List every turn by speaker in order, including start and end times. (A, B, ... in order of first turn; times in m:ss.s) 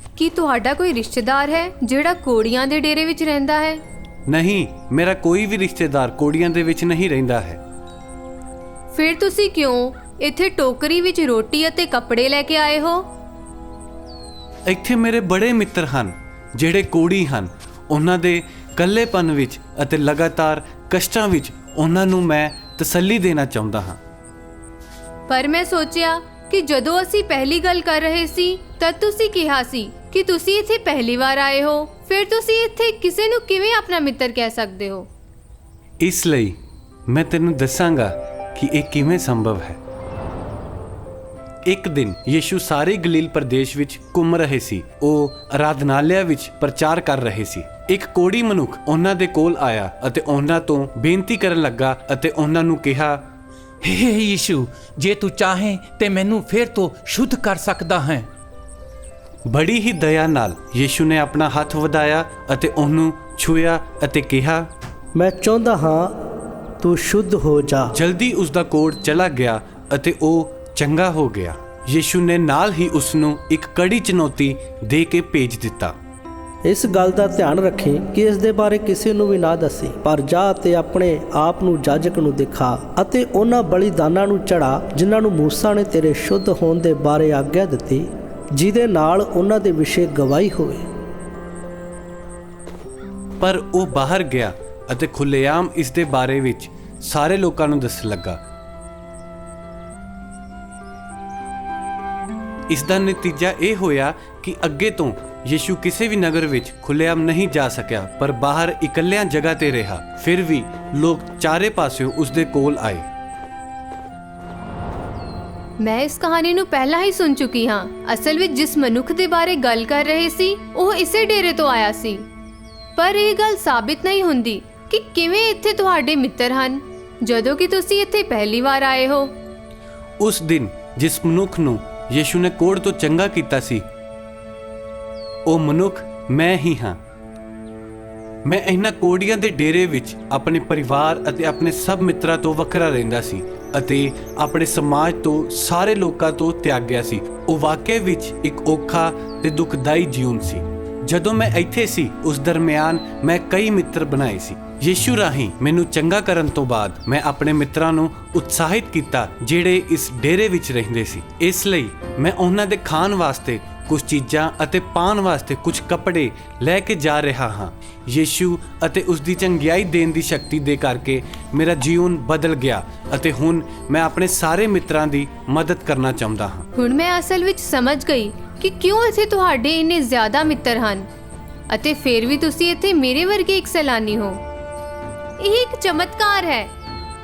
0:00.2-0:03.8 A
0:04.3-0:07.6 B
0:08.9-0:13.1 A
0:14.7-0:24.0 B
0:25.3-0:35.1 A
0:36.0-0:36.6 B
0:37.1-0:39.8 B
0:41.6-0:53.2 B
0:53.8-0:58.3 C
0:59.5-1:04.7 B
1:05.2-1:06.1 D
1:06.8-1:07.9 D
1:07.9-1:16.0 B
1:16.6-1:30.8 D
1:33.4-1:38.4 B
1:42.7-1:53.1 B
1:55.8-2:02.2 A
2:03.0-2:09.3 A
2:10.2-2:13.8 B
2:15.5-2:17.0 B
2:18.4-2:56.7 B
2:56.8-3:01.1 A
3:01.7-3:04.4 A
3:05.4-3:06.7 A